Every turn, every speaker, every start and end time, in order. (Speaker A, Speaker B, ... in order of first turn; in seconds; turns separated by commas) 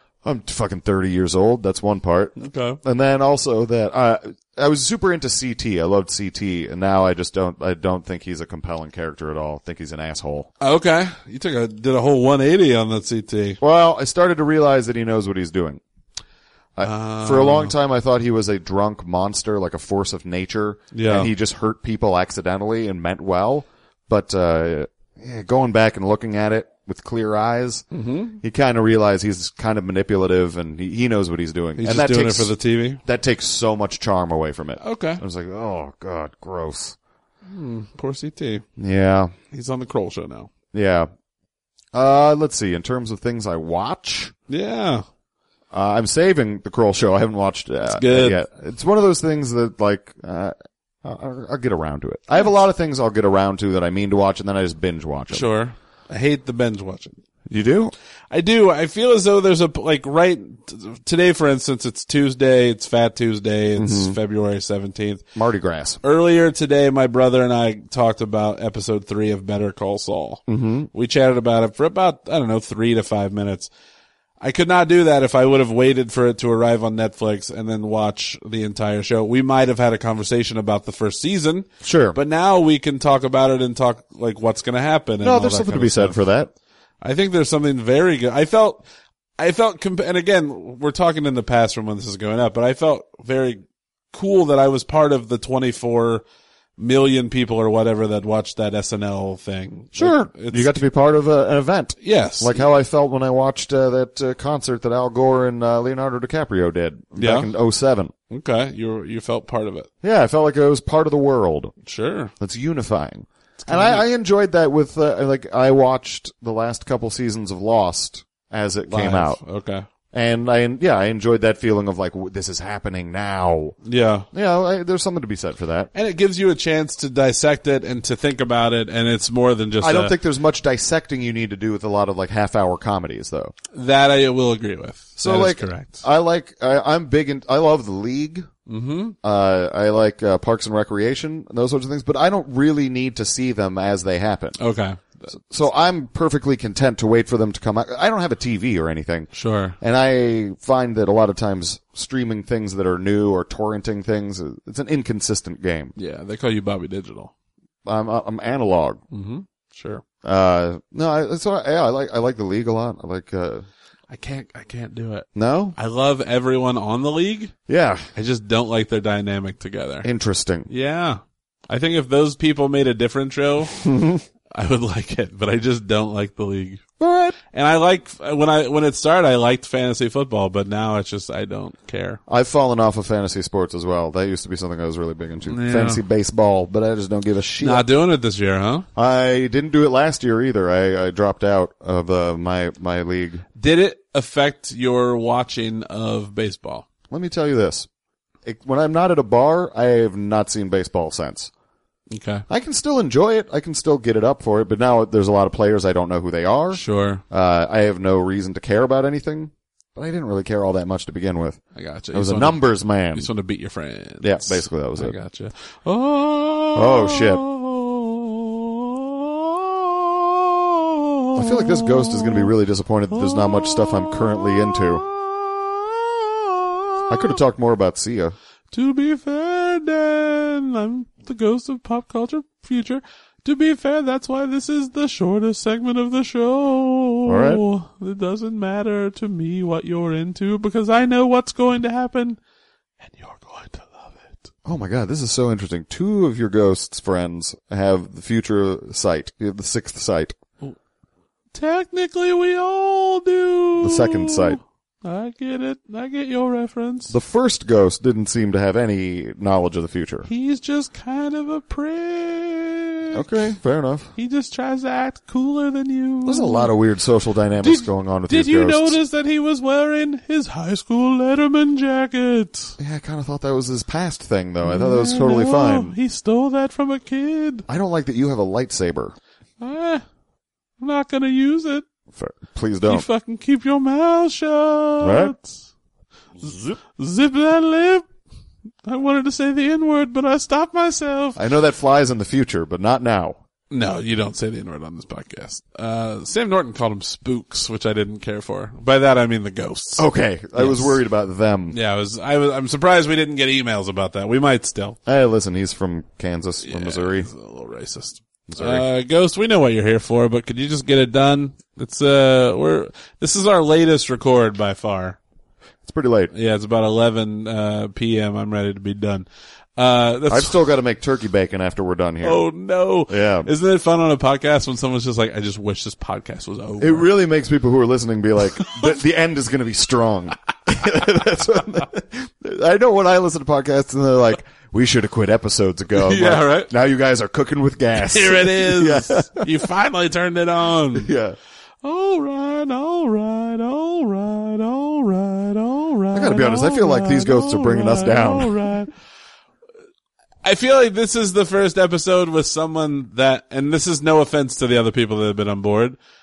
Speaker A: 0.2-10.5, Speaker B: 2.4-2.8, Speaker B: 10.6-13.6, Speaker A: 13.6-15.8, Speaker A: 16.8-27.9, Speaker B: 16.8-17.7, Speaker B: 20.9-21.3, Speaker B: 27.9-28.4, Speaker A: 28.4-32.5, Speaker B: 31.8-33.0, Speaker A: 33.0-37.0, Speaker B: 34.8-35.2, Speaker B: 37.5-38.6, Speaker A: 38.8-39.3, Speaker B: 39.5-40.5, Speaker A: 40.7-41.1, Speaker A: 41.9-44.3, Speaker B: 44.5-45.0, Speaker A: 45.7-55.5, Speaker B: 47.9-48.4, Speaker B: 55.3-57.2, Speaker A: 57.5-57.9, Speaker B: 58.3-65.2, Speaker A: 63.8-64.2, Speaker A: 65.3-66.0, Speaker B: 66.0-73.7, Speaker A: 70.5-70.9, Speaker B: 74.4-86.2, Speaker A: 81.8-82.2, Speaker A: 85.2-86.5, Speaker B: 87.0-88.8, Speaker B: 89.4-96.2, Speaker B: 96.8-100.8, Speaker A: 100.0-108.1, Speaker B: 102.0-102.6, Speaker B: 107.2-107.5, Speaker B: 108.3-109.9, Speaker A: 110.0-111.7, Speaker B: 111.8-112.3, Speaker A: 112.4-119.4, Speaker B: 113.6-114.0, Speaker B: 118.9-119.9, Speaker A: 120.1-123.8, Speaker B: 123.8-124.3, Speaker A: 124.3-125.9, Speaker B: 125.9-130.2, Speaker A: 129.8-133.5, Speaker B: 133.7-136.0, Speaker A: 135.2-138.5, Speaker B: 138.7-139.2, Speaker A: 139.2-144.6, Speaker B: 144.6-145.3, Speaker A: 145.3-155.9, Speaker B: 149.3-149.8, Speaker B: 155.9-157.3, Speaker A: 157.8-159.0, Speaker B: 159.1-160.0, Speaker A: 160.2-163.7, Speaker B: 164.1-167.5, Speaker A: 165.3-165.8, Speaker A: 167.7-168.1, Speaker B: 168.2-170.1, Speaker A: 170.0-170.7, Speaker B: 170.7-173.8, Speaker A: 173.8-174.2, Speaker B: 174.5-176.8, Speaker A: 177.0-177.4, Speaker B: 177.5-182.2, Speaker A: 182.3-187.8, Speaker B: 185.5-186.0, Speaker B: 187.6-188.9, Speaker A: 189.0-193.4, Speaker B: 193.6-196.9, Speaker A: 197.1-197.9, Speaker A: 198.4-201.5, Speaker B: 202.1-202.5, Speaker A: 202.5-211.6, Speaker B: 206.7-207.2, Speaker B: 211.8-222.5, Speaker A: 212.1-213.3, Speaker A: 214.2-215.2, Speaker A: 216.8-217.4, Speaker A: 221.3-225.0, Speaker B: 223.1-227.4, Speaker A: 227.1-228.4, Speaker B: 228.7-242.4, Speaker A: 237.3-237.6, Speaker B: 243.0-244.5, Speaker A: 244.7-250.4, Speaker B: 251.5-257.1, Speaker A: 253.8-254.6, Speaker A: 257.1-260.3, Speaker B: 260.3-263.2, Speaker A: 263.1-264.1, Speaker B: 264.2-266.7, Speaker A: 266.3-269.0, Speaker B: 267.6-272.8, Speaker A: 272.8-275.9, Speaker B: 274.6-277.7, Speaker A: 277.7-279.2, Speaker B: 279.6-280.0, Speaker B: 280.8-281.9, Speaker A: 282.1-283.1, Speaker B: 282.9-285.6, Speaker A: 285.0-285.4, Speaker A: 286.4-286.8, Speaker B: 286.4-288.1, Speaker B: 288.9-291.4, Speaker A: 291.4-293.4, Speaker B: 293.7-301.0, Speaker A: 300.0-301.8, Speaker B: 301.7-305.0, Speaker A: 305.1-307.3, Speaker B: 306.6-315.2, Speaker A: 308.5-308.9, Speaker A: 315.8-316.3, Speaker B: 316.3-319.3, Speaker B: 319.8-320.6, Speaker A: 320.3-322.4, Speaker B: 322.2-327.1, Speaker A: 323.1-323.5, Speaker A: 326.8-339.5, Speaker B: 328.6-328.9, Speaker B: 335.9-336.7, Speaker B: 338.0-341.1, Speaker A: 340.9-341.4, Speaker B: 341.8-348.9, Speaker A: 346.1-348.7, Speaker B: 350.4-356.0